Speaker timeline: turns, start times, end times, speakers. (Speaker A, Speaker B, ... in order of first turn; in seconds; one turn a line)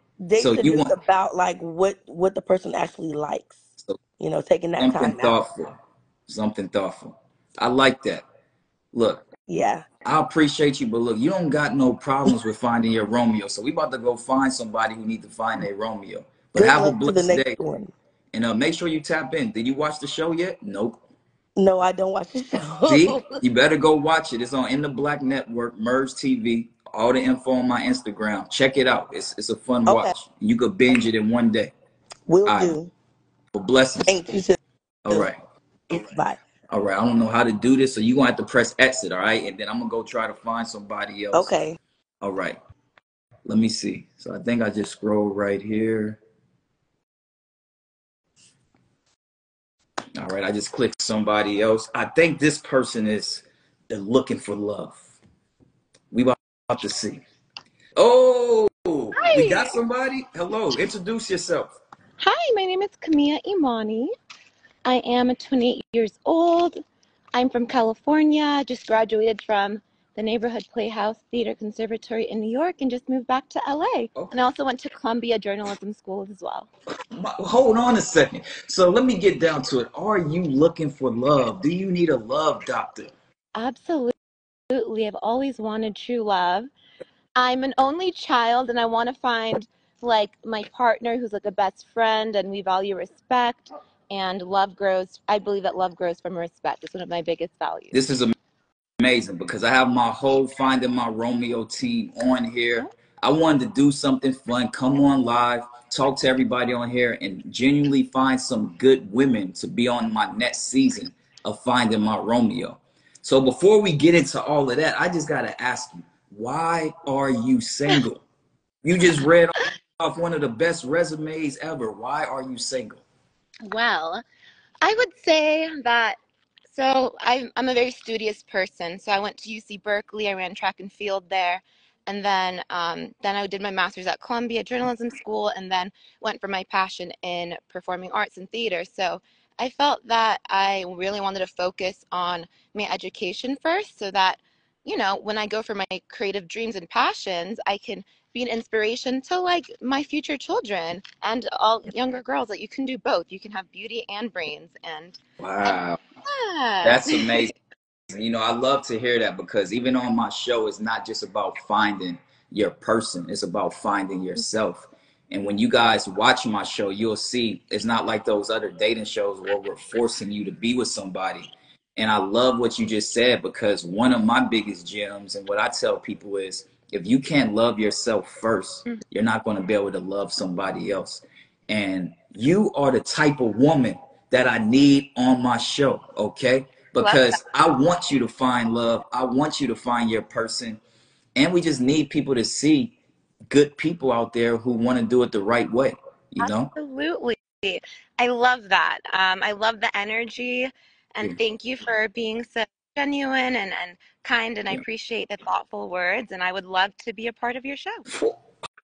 Speaker A: 0.2-3.6
Speaker B: 0.3-0.9
Speaker A: 4.2-5.3
Speaker B: 4.8-8.2
Speaker B: 8.9-9.2
Speaker A: 9.5-9.8
Speaker B: 10.0-17.6
Speaker A: 16.6-17.9
Speaker B: 18.3-21.0
Speaker A: 21.6-23.4
Speaker B: 22.9-31.7
Speaker A: 29.9-30.1
Speaker A: 32.3-32.9
Speaker B: 32.5-32.8
Speaker B: 33.5-34.2
Speaker A: 34.1-34.6
Speaker B: 35.0-35.4
Speaker A: 35.9-36.4
Speaker B: 36.7-41.5
Speaker A: 41.3-41.8
Speaker B: 42.2-42.6
Speaker B: 43.5-46.2
Speaker B: 50.1-55.2
Speaker B: 56.1-57.2
Speaker B: 58.0-61.8
Speaker C: 59.1-59.8
Speaker C: 62.2-64.1
Speaker C: 64.8-66.8
Speaker C: 67.3-76.7
Speaker B: 77.1-83.1
Speaker C: 83.5-84.1
Speaker C: 84.7-86.7
Speaker C: 87.3-97.9
Speaker B: 97.9-98.3
Speaker B: 99.0-118.2
Speaker B: 118.8-123.0
Speaker C: 123.6-124.2
Speaker C: 124.8-155.8
Speaker B: 155.4-156.0
Speaker C: 156.3-157.5
Speaker B: 156.8-157.5
Speaker B: 158.1-190.8
Speaker C: 187.0-187.4
Speaker B: 191.3-193.0
Speaker B: 193.5-196.7
Speaker C: 196.4-208.0
Speaker B: 208.1-208.4